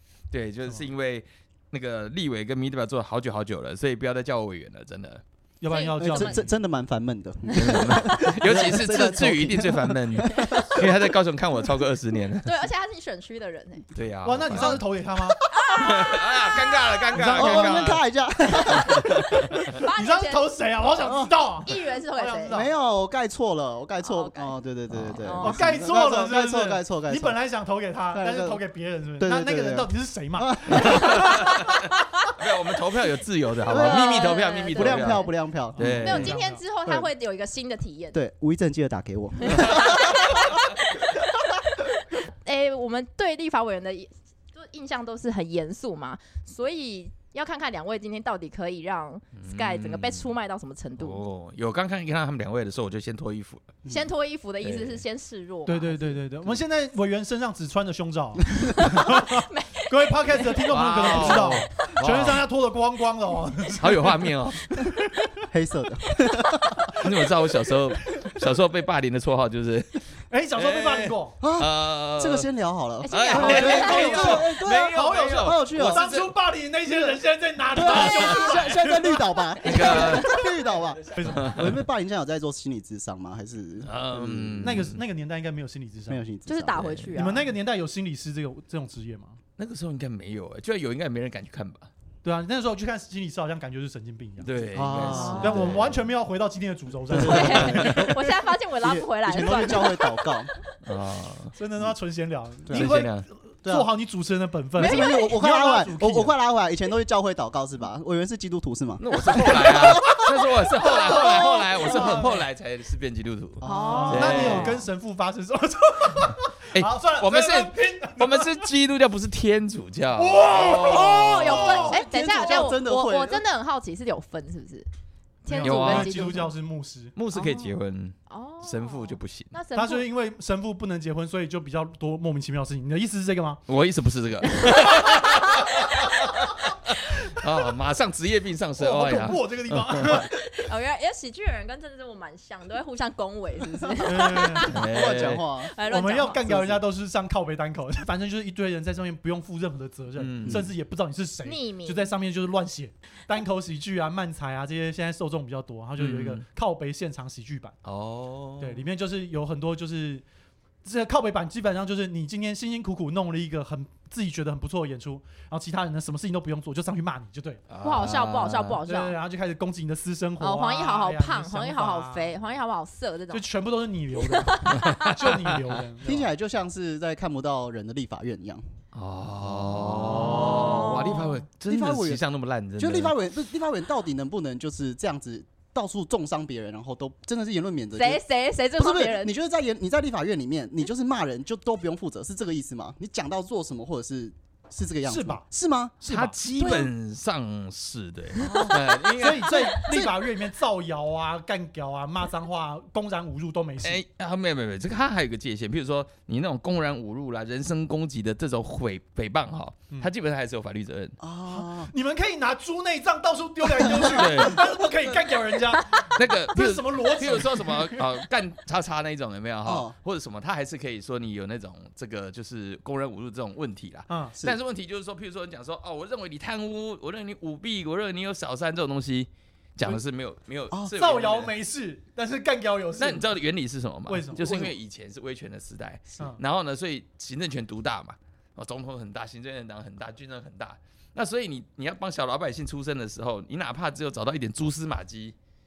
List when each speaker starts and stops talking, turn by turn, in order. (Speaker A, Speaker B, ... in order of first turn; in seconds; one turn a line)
Speaker A: 0.3-5.2
Speaker B: 5.6-6.5
Speaker C: 5.7-6.4
Speaker D: 6.0-10.9
Speaker A: 7.5-12.5
Speaker C: 12.4-13.9
Speaker A: 13.9-14.8
Speaker B: 14.2-15.4
Speaker C: 15.5-17.3
Speaker A: 15.8-18.0
Speaker B: 17.2-17.8
Speaker D: 17.2-19.3
Speaker C: 18.6-18.9
Speaker B: 18.7-22.7
Speaker C: 19.7-22.6
Speaker D: 21.0-21.3
Speaker D: 22.4-27.4
Speaker C: 24.0-24.6
Speaker A: 24.9-25.2
Speaker C: 25.2-25.7
Speaker B: 25.4-31.6
Speaker D: 28.1-28.6
Speaker D: 29.2-31.2
Speaker A: 30.9-31.8
Speaker A: 32.4-35.3
Speaker D: 33.6-36.1
Speaker C: 33.7-35.3
Speaker B: 35.8-36.6
Speaker A: 35.8-36.4
Speaker C: 36.0-38.2
Speaker D: 38.1-40.2
Speaker C: 39.4-41.2
Speaker C: 41.8-51.2
Speaker A: 49.3-50.3
Speaker A: 51.0-53.8
Speaker C: 53.9-56.2
Speaker A: 54.6-55.0
Speaker B: 55.7-65.4
Speaker C: 58.8-60.6
Speaker A: 60.7-62.5
Speaker A: 63.8-64.7
Speaker D: 65.5-66.8
Speaker B: 67.0-68.4
Speaker A: 67.0-70.0
Speaker B: 70.3-71.4
Speaker A: 70.5-72.5
Speaker D: 71.4-76.1
Speaker C: 73.0-74.4
Speaker A: 73.1-76.3
Speaker B: 73.3-80.5
Speaker D: 77.7-84.8
Speaker C: 77.9-78.6
Speaker A: 79.6-80.3
Speaker C: 79.7-80.4
Speaker B: 81.0-81.8
Speaker A: 81.2-81.8
Speaker A: 83.8-85.0
Speaker B: 84.6-86.2
Speaker D: 86.1-86.9
Speaker C: 86.5-87.5
Speaker A: 86.8-87.2
Speaker B: 87.2-89.4
Speaker A: 89.6-91.9
Speaker B: 92.2-94.6
Speaker A: 94.4-96.1
Speaker D: 94.7-95.7
Speaker C: 95.0-95.7
Speaker B: 95.4-98.4
Speaker D: 97.1-98.1
Speaker C: 97.1-100.3
Speaker A: 97.2-98.0
Speaker D: 98.8-100.5
Speaker A: 100.8-101.5
Speaker B: 101.5-106.3
Speaker D: 102.7-102.9
Speaker A: 102.7-103.3
Speaker D: 103.6-103.9
Speaker C: 104.8-105.4
Speaker D: 104.8-110.5
Speaker A: 109.0-114.8
Speaker B: 110.8-112.5
Speaker D: 113.6-114.6
Speaker C: 113.6-114.8
Speaker B: 113.9-118.7
Speaker A: 116.7-121.7
Speaker B: 120.1-122.1
Speaker C: 120.5-124.9
Speaker D: 121.5-123.4
Speaker C: 125.4-126.5
Speaker B: 125.5-127.1
Speaker A: 125.6-126.3
Speaker A: 127.1-129.5
Speaker C: 127.3-127.7
Speaker C: 128.3-130.1
Speaker B: 129.7-133.6
Speaker A: 133.7-140.3
Speaker C: 134.6-135.6
Speaker B: 138.8-140.3
Speaker C: 140.1-144.8
Speaker B: 144.0-144.8
Speaker A: 144.7-145.4
Speaker D: 144.7-145.8
Speaker C: 145.6-146.4
Speaker B: 145.8-157.8
Speaker D: 146.4-146.8
Speaker A: 150.2-150.7
Speaker C: 151.4-152.1
Speaker A: 156.0-156.4
Speaker A: 157.8-158.8
Speaker B: 158.6-160.2
Speaker B: 160.8-167.7
Speaker A: 167.7-168.8
Speaker C: 167.8-169.2
Speaker B: 168.8-172.4
Speaker C: 170.4-173.4
Speaker B: 173.3-176.3
Speaker C: 174.2-175.3
Speaker A: 174.8-175.6
Speaker D: 176.0-178.6
Speaker A: 178.9-183.1
Speaker B: 180.2-180.8
Speaker C: 180.4-181.3
Speaker D: 181.7-182.2
Speaker D: 182.8-188.2
Speaker C: 187.9-189.3
Speaker D: 188.8-196.9
Speaker B: 195.0-195.4
Speaker A: 196.0-200.0
Speaker B: 196.0-196.8
Speaker D: 198.4-198.8
Speaker B: 199.2-204.0
Speaker D: 199.4-200.1
Speaker A: 203.8-211.2
Speaker D: 211.2-211.9
Speaker B: 211.5-218.1
Speaker A: 214.2-214.6
Speaker A: 216.1-231.5
Speaker D: 219.6-219.9
Speaker B: 224.1-224.3
Speaker B: 230.9-233.3
Speaker A: 233.0-245.3
Speaker B: 234.1-234.8